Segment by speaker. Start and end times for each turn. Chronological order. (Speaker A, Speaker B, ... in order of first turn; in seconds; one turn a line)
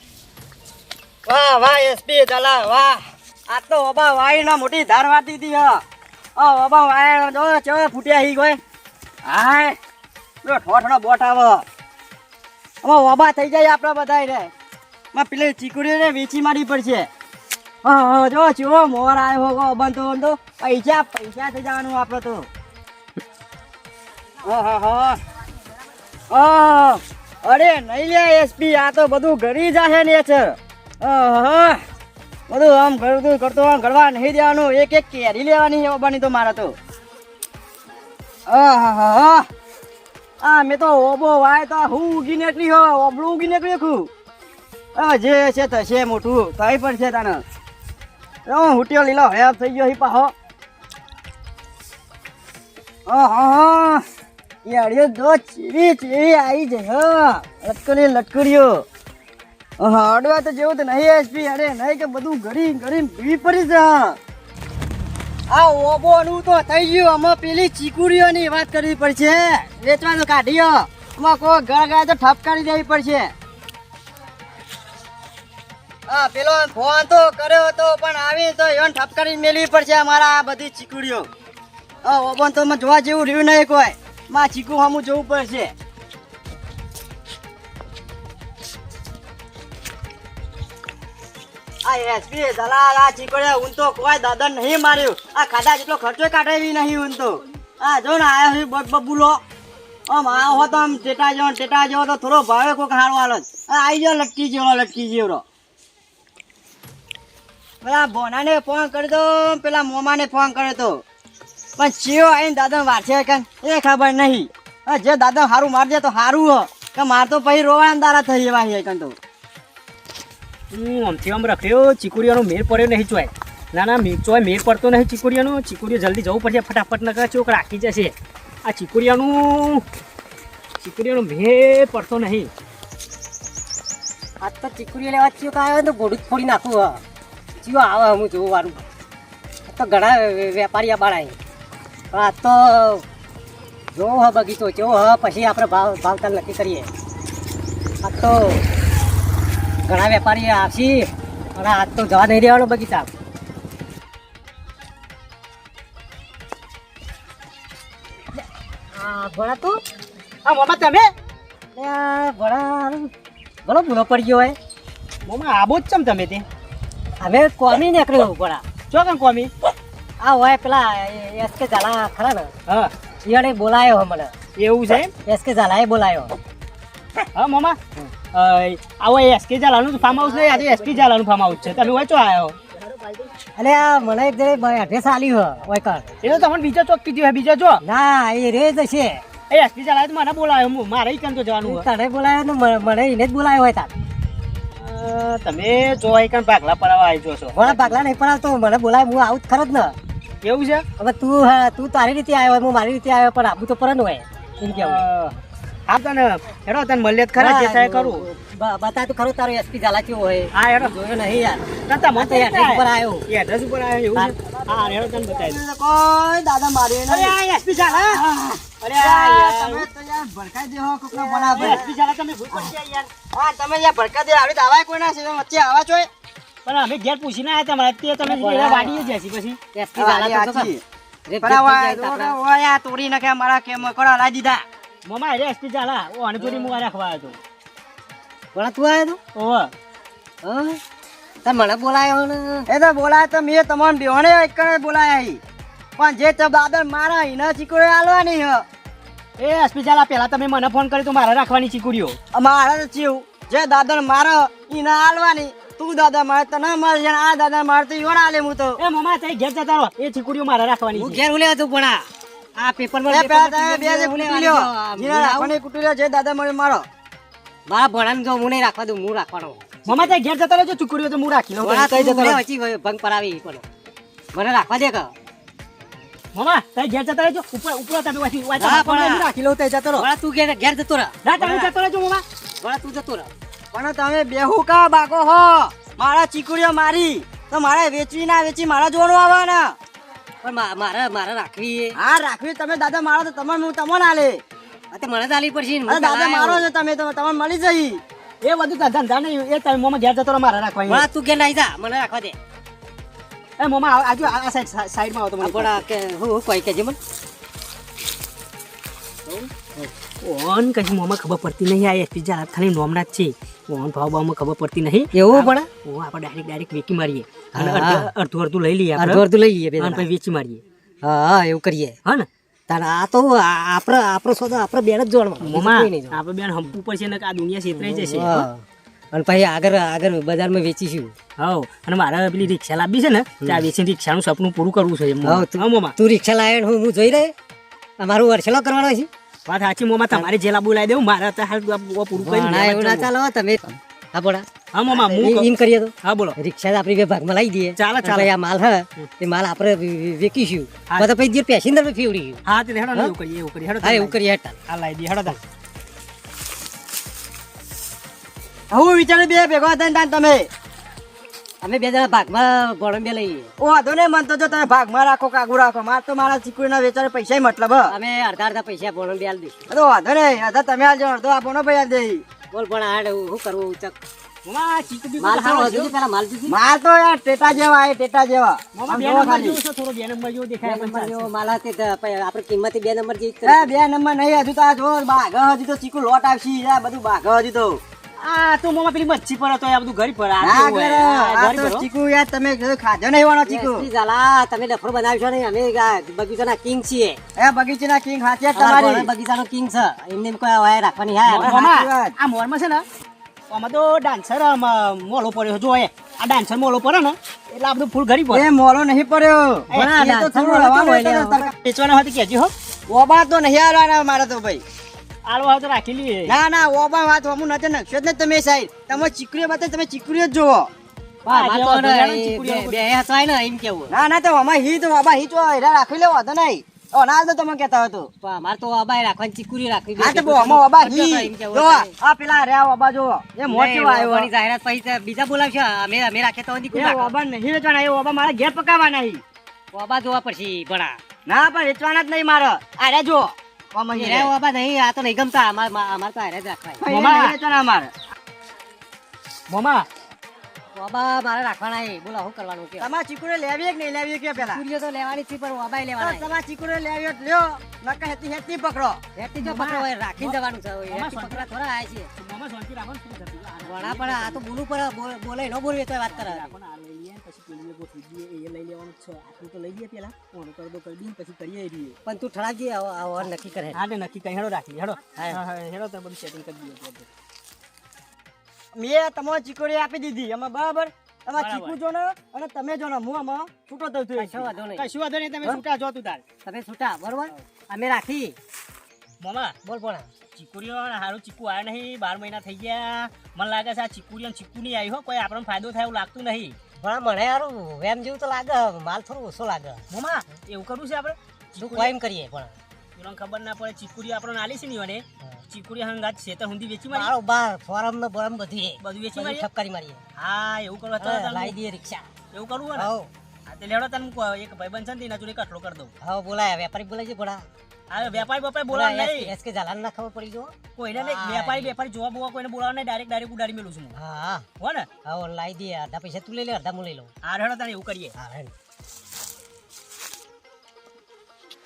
Speaker A: 1.3-5.8
Speaker A: 6.4-8.6
Speaker A: 9.2-9.8
Speaker A: 10.4-11.6
Speaker A: 12.8-14.5
Speaker A: 15.1-17.1
Speaker A: 17.8-22.5
Speaker A: 24.4-25.2
Speaker A: 26.3-31.8
Speaker A: 32.5-36.8
Speaker A: 38.5-39.5
Speaker A: 40.4-44.1
Speaker A: 45.0-47.4
Speaker A: 48.5-50.3
Speaker A: 53.1-54.0
Speaker A: 54.6-58.9
Speaker A: 59.8-64.2
Speaker A: 65.5-73.3
Speaker A: 76.1-81.3
Speaker A: 82.0-85.7
Speaker A: 91.8-99.4
Speaker A: 100.1-105.4
Speaker A: 107.8-111.0
Speaker A: 111.8-119.2
Speaker B: 120.7-129.8
Speaker B: 130.8-132.5
Speaker C: 134.4-137.0
Speaker C: 137.6-138.8
Speaker C: 139.7-141.4
Speaker C: 142.1-143.1
Speaker C: 143.9-146.9
Speaker C: 148.0-148.6
Speaker C: 149.9-153.1
Speaker C: 159.0-159.8
Speaker B: 160.4-161.1
Speaker C: 161.7-163.1
Speaker C: 163.7-164.6
Speaker B: 165.2-166.5
Speaker C: 167.2-168.6
Speaker B: 168.9-169.5
Speaker C: 170.2-172.5
Speaker B: 172.7-172.9
Speaker C: 173.2-174.3
Speaker B: 174.6-175.1
Speaker C: 175.2-176.3
Speaker B: 177.3-177.8
Speaker B: 178.3-183.3
Speaker C: 180.1-181.1
Speaker C: 183.6-186.1
Speaker B: 186.2-187.8
Speaker C: 187.8-189.2
Speaker B: 189.5-191.9
Speaker C: 191.6-193.9
Speaker B: 194.7-198.0
Speaker C: 197.5-200.0
Speaker B: 200.4-200.8
Speaker C: 201.0-205.1
Speaker B: 204.7-208.3
Speaker C: 207.4-213.3
Speaker B: 210.5-210.9
Speaker B: 211.9-215.6
Speaker A: 214.7-217.4
Speaker B: 217.1-218.2
Speaker A: 218.0-221.9
Speaker B: 218.8-219.9
Speaker C: 221.1-221.8
Speaker B: 221.5-223.1
Speaker A: 222.5-222.8
Speaker A: 223.3-226.1
Speaker B: 226.7-229.6
Speaker C: 228.2-229.1
Speaker C: 229.7-230.7
Speaker A: 230.0-230.8
Speaker C: 231.3-232.4
Speaker A: 231.4-234.7
Speaker B: 235.1-237.4
Speaker C: 236.5-236.8
Speaker C: 238.5-239.2
Speaker B: 239.3-239.7
Speaker C: 240.4-240.8
Speaker C: 241.4-242.7
Speaker A: 242.7-245.4
Speaker A: 246.0-248.7
Speaker B: 249.4-252.2
Speaker A: 252.3-258.8
Speaker B: 258.8-261.2
Speaker C: 260.9-262.1
Speaker C: 262.6-265.6
Speaker A: 263.1-266.9
Speaker C: 267.7-269.7
Speaker B: 269.9-272.4
Speaker C: 271.6-273.6
Speaker C: 274.3-275.1
Speaker B: 276.3-280.1
Speaker C: 278.6-279.3
Speaker C: 279.9-281.1
Speaker B: 281.2-282.2
Speaker C: 282.6-283.3
Speaker A: 283.7-289.8
Speaker C: 290.4-292.0
Speaker A: 292.0-294.4
Speaker C: 294.9-296.7
Speaker A: 295.9-298.0
Speaker B: 298.4-301.1
Speaker C: 300.9-302.4
Speaker B: 303.6-305.8
Speaker C: 305.4-307.0
Speaker C: 309.3-309.9
Speaker B: 310.2-319.2
Speaker C: 315.1-315.7
Speaker C: 317.6-318.1
Speaker C: 319.0-320.1
Speaker B: 319.8-320.6
Speaker C: 321.0-322.0
Speaker C: 322.7-326.2
Speaker B: 325.4-328.5
Speaker C: 327.8-331.1
Speaker B: 331.4-336.0
Speaker C: 335.2-337.3
Speaker C: 338.0-339.1
Speaker B: 339.5-343.1
Speaker C: 342.2-352.4
Speaker B: 344.7-345.5
Speaker B: 346.0-346.4
Speaker B: 347.8-348.3
Speaker B: 352.5-354.2
Speaker C: 353.8-354.6
Speaker B: 354.7-355.4
Speaker A: 358.7-360.5
Speaker C: 361.6-363.5
Speaker A: 363.6-367.9
Speaker C: 367.9-369.6
Speaker A: 369.7-372.2
Speaker C: 372.5-374.1
Speaker B: 374.5-375.9
Speaker C: 375.2-376.6
Speaker A: 376.5-379.6
Speaker B: 378.8-381.3
Speaker C: 380.6-383.8
Speaker A: 383.4-387.8
Speaker B: 388.2-391.9
Speaker A: 390.4-393.9
Speaker C: 393.5-397.2
Speaker A: 397.4-399.1
Speaker C: 398.6-401.7
Speaker B: 401.3-402.9
Speaker A: 401.4-402.1
Speaker B: 403.5-408.5
Speaker A: 408.3-411.5
Speaker B: 409.7-410.0
Speaker C: 409.7-411.5
Speaker B: 411.6-412.5
Speaker A: 412.9-414.6
Speaker B: 415.3-416.4
Speaker A: 416.3-420.7
Speaker B: 421.3-422.8
Speaker C: 421.3-423.9
Speaker A: 423.9-428.1
Speaker C: 428.2-431.9
Speaker A: 430.0-434.3
Speaker C: 433.5-437.1
Speaker A: 436.7-439.2
Speaker C: 439.7-441.0
Speaker A: 441.3-444.3
Speaker C: 443.9-446.8
Speaker A: 446.8-447.9
Speaker B: 446.9-447.4
Speaker B: 449.5-449.9
Speaker C: 450.8-452.9
Speaker A: 452.8-454.6
Speaker C: 454.4-456.3
Speaker A: 456.0-459.0
Speaker C: 459.2-462.1
Speaker B: 459.4-460.4
Speaker B: 460.9-461.5
Speaker B: 462.2-464.4
Speaker C: 463.7-466.6
Speaker B: 466.1-472.0
Speaker C: 472.1-473.8
Speaker B: 473.2-477.1
Speaker A: 478.8-484.5
Speaker B: 481.3-481.8
Speaker C: 484.1-484.9
Speaker B: 484.8-486.2
Speaker C: 486.4-488.4
Speaker B: 489.2-489.6
Speaker C: 489.6-490.1
Speaker B: 490.3-496.6
Speaker C: 496.8-499.8
Speaker B: 499.9-502.0
Speaker C: 501.6-502.6
Speaker B: 503.0-507.1
Speaker C: 506.9-510.0
Speaker B: 508.8-509.5
Speaker B: 510.2-511.6
Speaker C: 511.0-512.1
Speaker B: 512.3-512.9
Speaker C: 512.8-513.1
Speaker B: 513.5-515.9
Speaker C: 516.0-517.5
Speaker B: 517.9-519.3
Speaker C: 518.2-521.7
Speaker B: 520.8-523.9
Speaker C: 523.9-524.5
Speaker B: 524.6-524.9
Speaker C: 525.0-527.1
Speaker B: 527.2-528.1
Speaker C: 528.2-528.5